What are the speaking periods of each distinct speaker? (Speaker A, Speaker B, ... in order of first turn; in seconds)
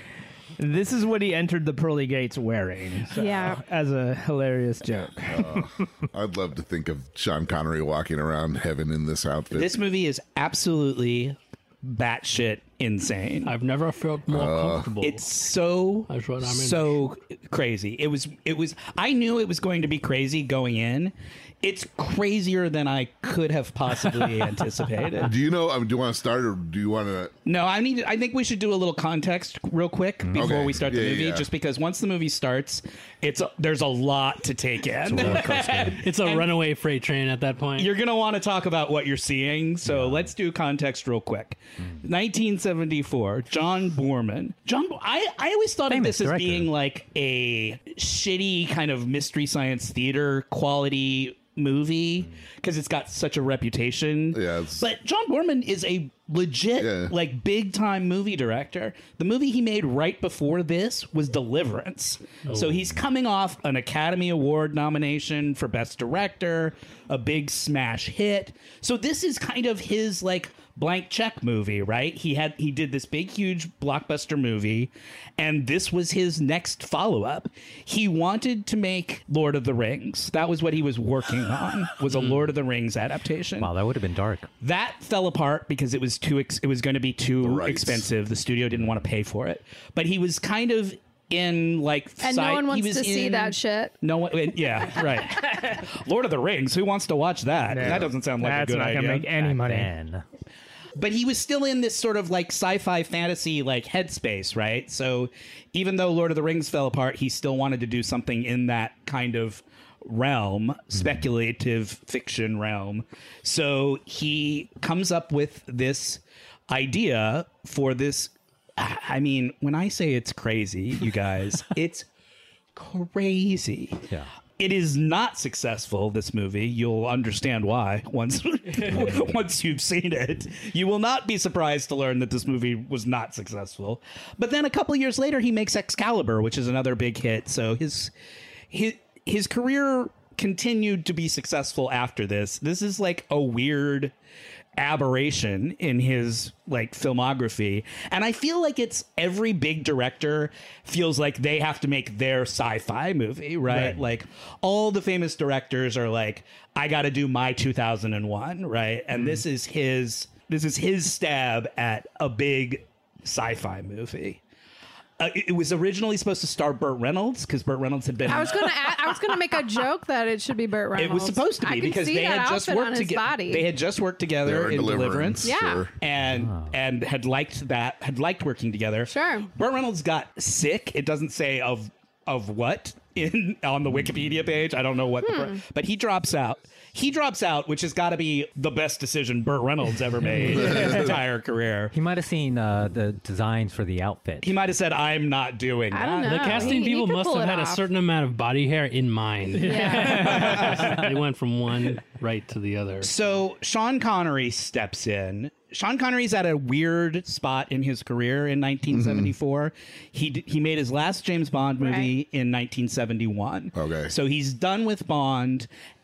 Speaker A: 0.6-5.7, 97.7-99.9, 199.5-201.1
Speaker B: 3.1-3.6, 92.2-93.9, 168.3-173.7, 175.4-175.8, 179.1-179.5, 185.2-185.6, 195.9-197.9, 199.6-200.6, 211.8-212.1
Speaker C: 5.3-9.8, 14.3-14.9, 25.2-27.3, 30.4-31.5, 35.1-35.6, 54.3-54.9, 56.8-57.1, 87.4-88.1, 97.8-98.1, 174.4-175.9, 190.5-191.1, 208.9-209.3, 213.7-214.1
Speaker D: 9.5-13.5, 15.0-25.3, 27.5-36.5, 37.8-83.7, 84.6-99.3, 101.0-122.1, 122.8-124.0, 124.6-138.1, 138.7-144.1, 144.8-164.4, 165.2-169.0, 171.0-191.9, 194.4-196.8, 200.3-200.8, 203.0-215.7
Speaker E: 13.4-15.2, 16.1-17.0, 35.9-37.9, 196.2-203.1
Speaker F: 35.2-35.9, 39.9-40.3, 45.9-46.7, 83.6-84.5, 99.4-100.2, 176.3-176.8, 191.9-194.5